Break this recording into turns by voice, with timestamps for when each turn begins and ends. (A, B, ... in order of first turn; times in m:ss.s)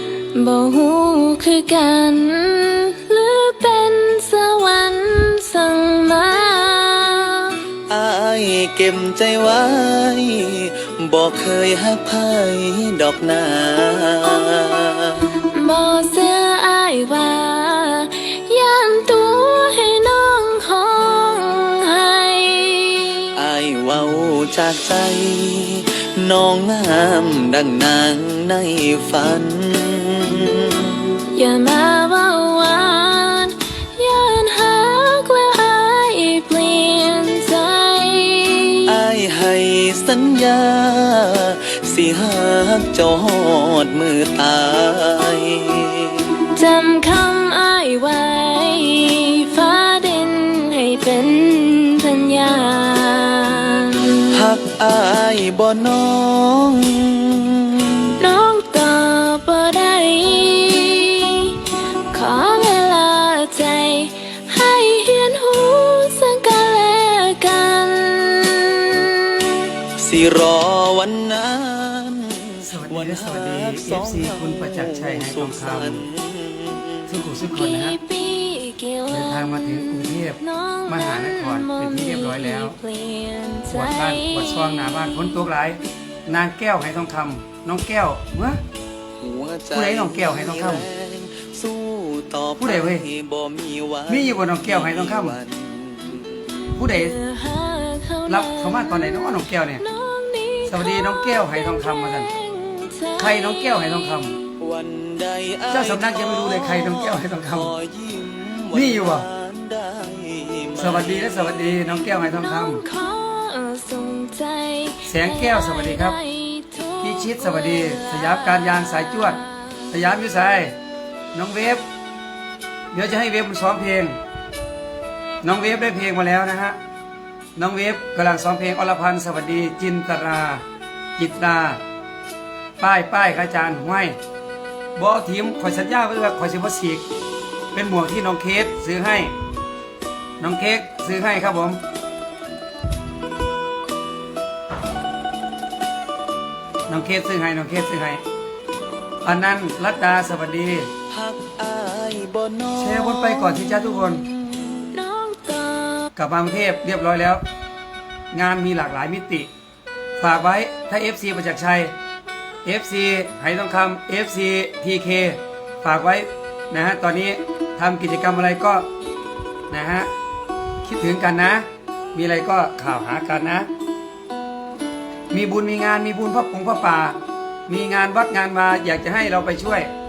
0:00.3-0:07.7 A
0:07.8-0:15.2 B
0:15.3-0:23.5 A
0:23.3-0:31.1 B
0:31.2-0:39.1 A
0:38.9-0:46.3 B
0:46.3-0:54.4 A
0:54.3-0:58.1 B
0:58.1-1:09.6 A
1:09.9-1:17.1 B
1:12.6-1:16.0 C
1:17.0-1:18.0 C
1:17.5-1:25.0 A
1:19.1-1:22.8 C
1:23.7-1:28.6 C
1:29.2-1:36.6 B
1:29.7-1:30.9 C
1:32.6-1:33.1 C
1:34.1-1:35.4 C
1:36.7-1:37.2 C
1:36.8-1:43.8 A
1:38.3-1:39.8 C
1:40.6-1:42.3 C
1:43.2-1:44.4 C
1:44.6-1:51.7 B
1:45.7-1:47.8 C
1:48.7-1:49.3 C
1:50.7-1:52.8 C
1:52.3-1:59.9 A
1:55.0-1:56.2 C
1:57.0-1:59.4 C
1:59.9-2:00.8 C
2:01.3-2:01.8 C
2:02.9-2:04.2 C
2:05.4-2:06.8 C
2:07.6-2:10.6 C
2:11.2-2:11.8 C
2:12.8-2:14.2 C
2:14.9-2:17.0 C
2:17.7-2:19.3 C
2:20.4-2:21.8 C
2:26.9-2:28.2 C
2:29.2-2:30.9 C
2:31.1-2:34.9 B
2:32.8-2:34.2 C
2:34.9-2:36.1 A
2:36.2-2:37.4 C
2:38.3-2:39.5 C
2:40.2-2:41.9 C
2:42.6-2:48.8 C
2:49.7-2:50.1 C
2:50.8-2:53.7 C
2:55.3-2:59.9 C